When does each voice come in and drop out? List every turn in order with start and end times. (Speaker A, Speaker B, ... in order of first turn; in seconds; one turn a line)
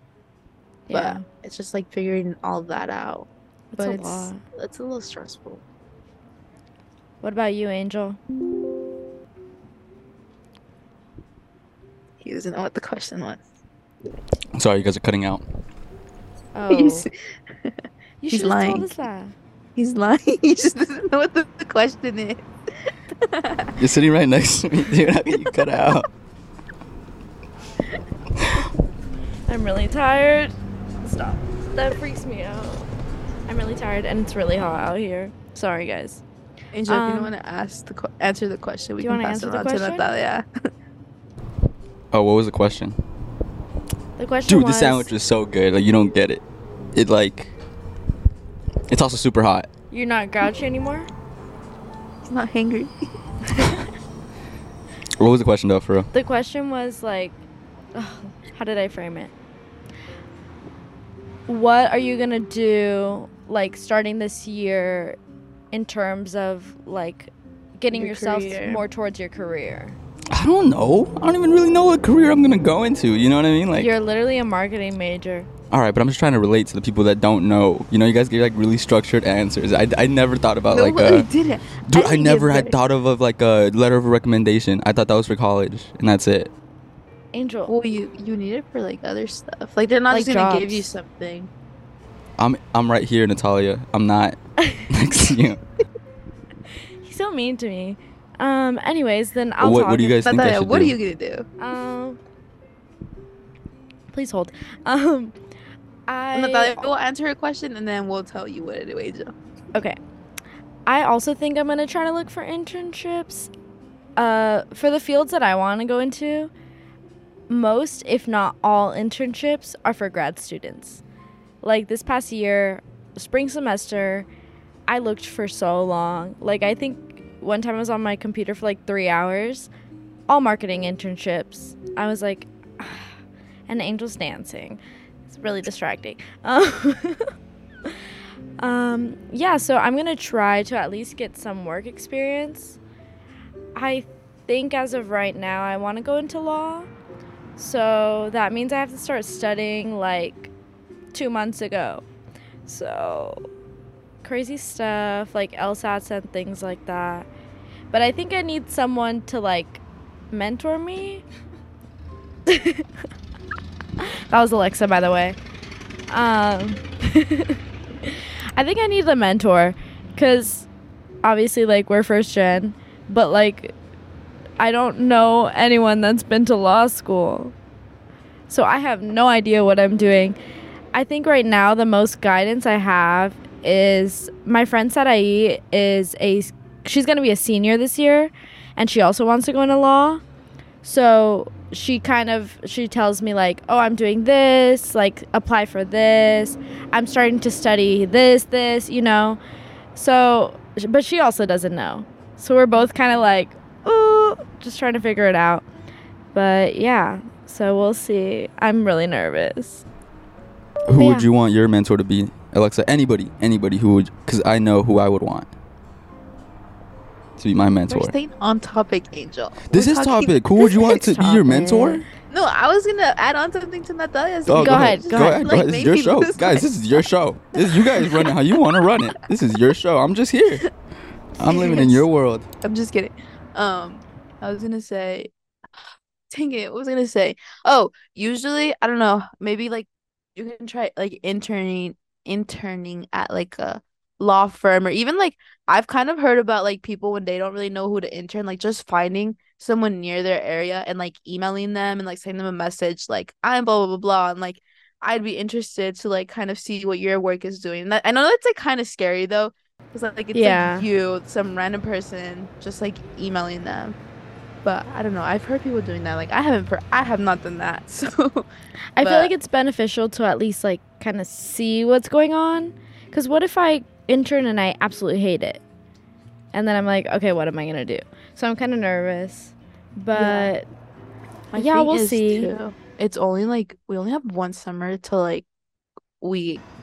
Speaker A: 0.9-1.2
Speaker B: 0.9-5.6
Speaker A: 3.7-4.4
Speaker A: 7.2-8.2
Speaker B: 12.2-13.4
Speaker C: 14.5-15.4
Speaker A: 16.5-17.1
Speaker B: 16.7-17.1
Speaker A: 18.2-19.3
Speaker B: 18.3-18.9
Speaker B: 19.8-23.7
Speaker C: 23.8-26.1
Speaker C: 28.4-28.6
Speaker A: 29.5-30.5
Speaker A: 31.0-32.9
Speaker A: 33.5-36.2
Speaker B: 36.7-40.5
Speaker A: 36.9-37.3
Speaker A: 39.0-40.1
Speaker C: 42.1-43.0
Speaker A: 44.2-45.1
Speaker C: 44.5-47.5
Speaker C: 48.9-49.7
Speaker A: 49.9-51.1
Speaker B: 52.3-52.9
Speaker C: 55.2-56.1
Speaker A: 56.1-57.3
Speaker A: 57.9-59.3
Speaker A: 61.5-65.2
Speaker A: 65.7-70.0
Speaker B: 67.9-68.8
Speaker C: 70.3-73.9
Speaker A: 73.8-75.5
Speaker C: 75.7-81.3
Speaker B: 80.7-82.7
Speaker C: 81.9-86.5
Speaker A: 87.3-87.7
Speaker B: 87.7-91.5
Speaker A: 90.1-90.9
Speaker C: 92.4-94.4
Speaker C: 94.9-95.6
Speaker A: 97.0-100.2
Speaker C: 99.6-101.0
Speaker B: 100.2-101.5
Speaker A: 101.6-102.2
Speaker A: 104.1-105.3
Speaker A: 106.1-106.9
Speaker B: 106.3-109.3
Speaker A: 110.9-113.5
Speaker A: 114.2-116.5
Speaker A: 117.5-121.0
Speaker A: 121.6-124.3
Speaker A: 124.9-129.7
Speaker A: 130.3-133.1
Speaker A: 133.7-137.3
Speaker A: 138.6-142.8
Speaker A: 143.7-146.9
Speaker A: 147.6-150.5
Speaker A: 151.1-152.0
Speaker A: 152.7-153.4
Speaker A: 154.2-157.3
Speaker A: 157.9-161.2
Speaker A: 162.5-162.8
Speaker A: 164.0-165.4
Speaker A: 166.1-170.7
Speaker A: 171.2-173.7
Speaker A: 174.6-177.5
Speaker A: 178.5-180.4
Speaker A: 180.9-190.2
Speaker A: 190.8-199.4
Speaker A: 199.9-205.6
Speaker A: 206.3-209.8
Speaker C: 210.8-215.5
Speaker A: 210.9-211.3
Speaker C: 217.4-218.1
Speaker B: 217.9-220.8
Speaker C: 219.7-222.1
Speaker A: 220.6-222.0
Speaker B: 222.2-227.0
Speaker C: 224.5-230.6
Speaker A: 224.6-225.4
Speaker B: 227.5-228.9
Speaker C: 231.4-232.4
Speaker B: 231.4-232.0
Speaker A: 231.5-231.9
Speaker B: 232.6-235.3
Speaker B: 236.3-263.9
Speaker A: 260.3-260.8
Speaker B: 264.6-268.5
Speaker A: 268.9-275.6
Speaker B: 269.0-269.3
Speaker A: 276.5-280.7
Speaker B: 280.1-280.5
Speaker B: 281.5-285.5
Speaker A: 281.6-282.5
Speaker B: 286.2-286.6